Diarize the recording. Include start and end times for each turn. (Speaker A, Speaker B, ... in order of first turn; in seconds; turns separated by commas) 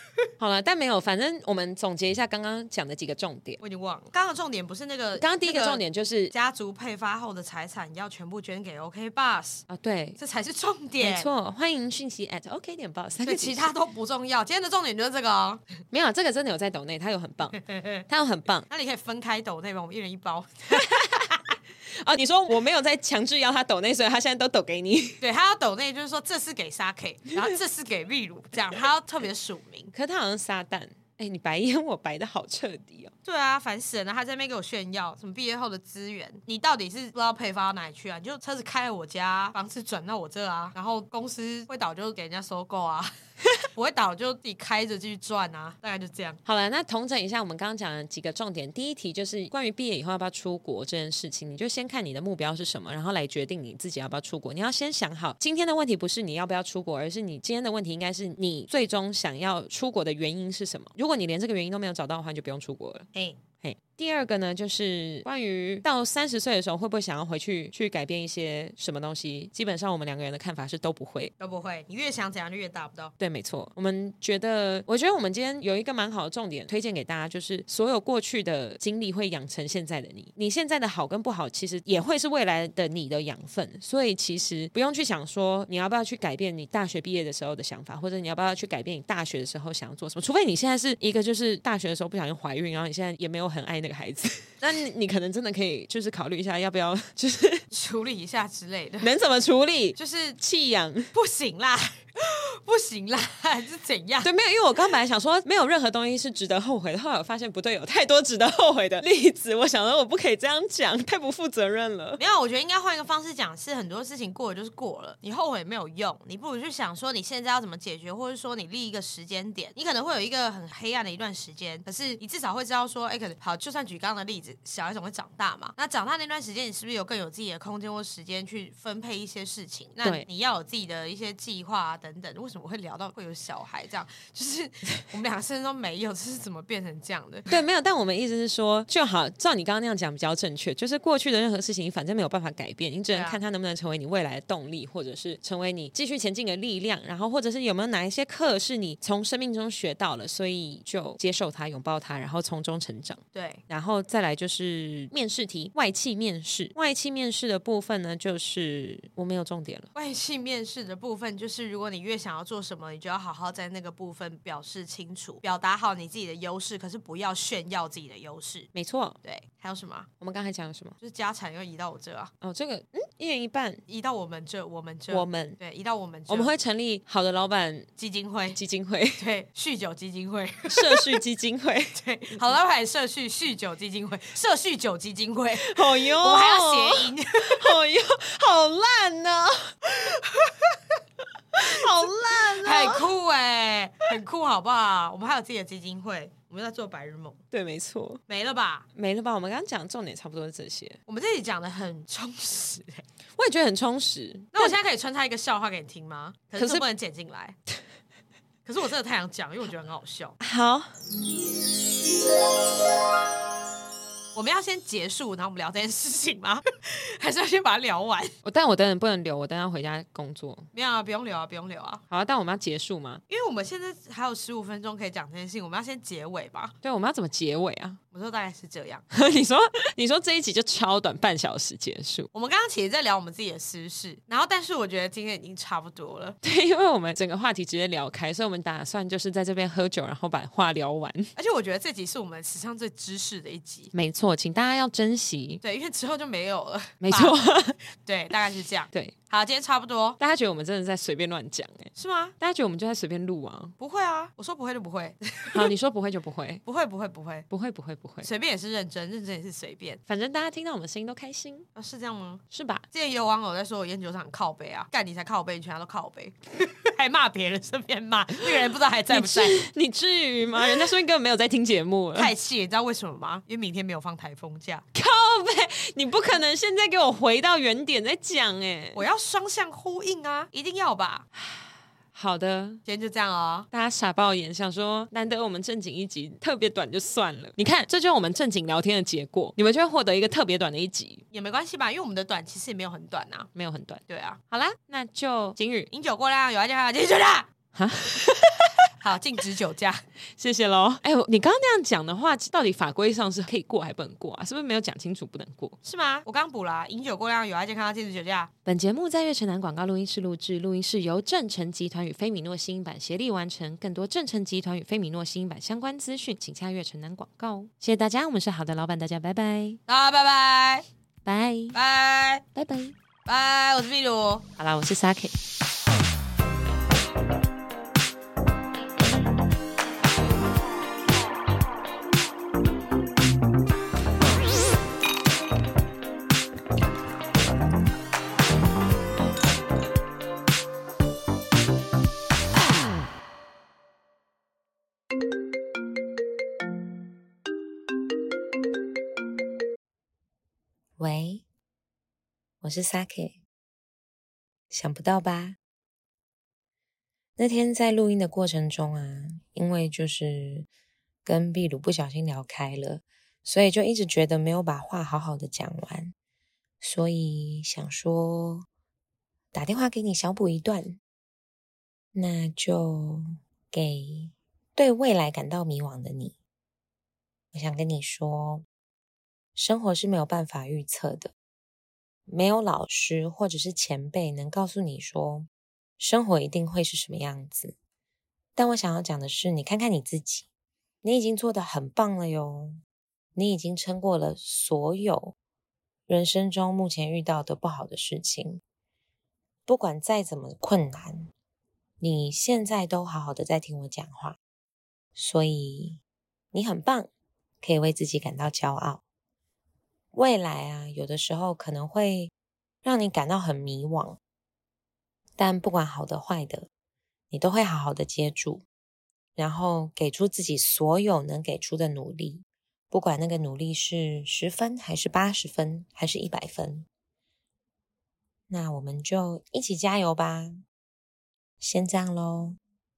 Speaker A: 0.4-3.6, Speaker B: 3.6-9.7, Speaker A: 5.2-6.3, Speaker A: 9.7-10.2, Speaker B: 10.2-11.3, Speaker A: 11.0-13.7, Speaker B: 13.2-15.6, Speaker A: 15.9-18.7, Speaker B: 17.6-18.0, Speaker B: 18.7-21.5, Speaker A: 20.7-21.2, Speaker A: 21.9-25.2, Speaker B: 25.2-29.9, Speaker A: 29.9-33.1, Speaker B: 33.2-46.4, Speaker A: 46.4-63.1, Speaker B: 63.1-63.4, Speaker A: 63.6-71.3, Speaker B: 71.4-73.1, Speaker A: 73.2-97.7, Speaker B: 97.7-99.1, Speaker A: 99.0-101.1, Speaker B: 100.0-100.4, Speaker B: 101.1-104.3, Speaker A: 104.2-112.2, Speaker B: 112.2-137.5, Speaker A: 130.0-130.3, Speaker A: 137.5-159.9, Speaker B: 143.1-143.4, Speaker B: 153.3-153.6, Speaker B: 159.9-168.7, Speaker A: 168.7-169.2, Speaker B: 169.2-170.1, Speaker A: 170.2-170.9, Speaker B: 171.0-172.3, Speaker A: 172.4-173.8, Speaker B: 173.9-176.5, Speaker A: 175.1-175.6, Speaker A: 176.3-177.9, Speaker B: 178.0-178.6, Speaker A: 178.5-179.2, Speaker B: 179.2-181.1, Speaker A: 180.7-182.4, Speaker B: 181.9-187.7, Speaker A: 185.6-189.7, Speaker B: 189.9-190.8, Speaker A: 191.6-193.1, Speaker B: 191.6-191.8, Speaker B: 192.4-197.4, Speaker A: 197.5-198.2, Speaker B: 198.3-198.8, Speaker A: 198.9-201.0, Speaker B: 201.1-203.0, Speaker A: 203.3-204.7, Speaker B: 204.5-207.6, Speaker A: 206.6-206.8, Speaker B: 208.6-210.3, Speaker A: 210.4-210.9, Speaker B: 214.3-218.3, Speaker A: 218.4-220.7, Speaker B: 220.7-222.0, Speaker A: 222.1-223.2, Speaker B: 223.3-226.7, Speaker A: 226.8-228.0, Speaker B: 228.1-229.0, Speaker A: 229.1-232.3, Speaker B: 232.3-236.3, Speaker A: 236.4-241.3, Speaker B: 241.3-243.9, Speaker A: 243.9-245.6, Speaker B: 245.6-247.4, Speaker A: 247.0-247.8, Speaker B: 248.0-250.2, Speaker A: 250.2-253.7, Speaker B: 251.9-252.3, Speaker B: 253.8-255.7, Speaker A: 255.5-256.6, Speaker B: 256.6-257.5, Speaker A: 257.5-258.3, Speaker B: 258.2-260.0, Speaker A: 260.1-261.7, Speaker B: 261.7-269.6, Speaker A: 262.5-262.8, Speaker A: 269.1-272.3, Speaker B: 272.1-274.8, Speaker A: 274.9-279.0, Speaker B: 278.9-281.2, Speaker A: 281.4-282.8, Speaker B: 282.8-283.7, Speaker A: 283.7-291.2, Speaker B: 291.3-293.5, Speaker A: 293.5-295.9, Speaker B: 294.1-294.4, Speaker B: 295.9-297.5, Speaker A: 297.7-298.8, Speaker B: 299.0-300.0, Speaker A: 300.3-305.8, Speaker B: 305.8-308.5, Speaker A: 308.6-319.8, Speaker B: 319.9-320.8, Speaker A: 321.2-321.8, Speaker B: 321.7-322.4, Speaker A: 322.5-322.9, Speaker B: 323.2-324.4, Speaker A: 324.6-325.3, Speaker C: 351.0-351.4, Speaker C: 352.6-353.4, Speaker C: 354.7-355.6, Speaker C: 357.4-360.7, Speaker C: 361.2-366.1, Speaker C: 366.8-368.6, Speaker C: 369.5-371.0, Speaker C: 372.1-376.4, Speaker C: 377.5-378.6, Speaker C: 379.6-381.3, Speaker C: 382.3-387.7, Speaker C: 388.6-390.4, Speaker C: 391.0-392.8, Speaker C: 393.3-395.3, Speaker C: 396.1-398.6, Speaker C: 399.7-401.3, Speaker C: 402.0-404.4, Speaker C: 405.1-406.0, Speaker C: 406.5-407.1, Speaker C: 407.6-409.0, Speaker C: 410.1-412.3, Speaker C: 412.8-414.2, Speaker C: 415.4-416.7, Speaker C: 417.3-418.6, Speaker C: 419.4-426.9, Speaker C: 428.5-430.6, Speaker C: 431.6-432.6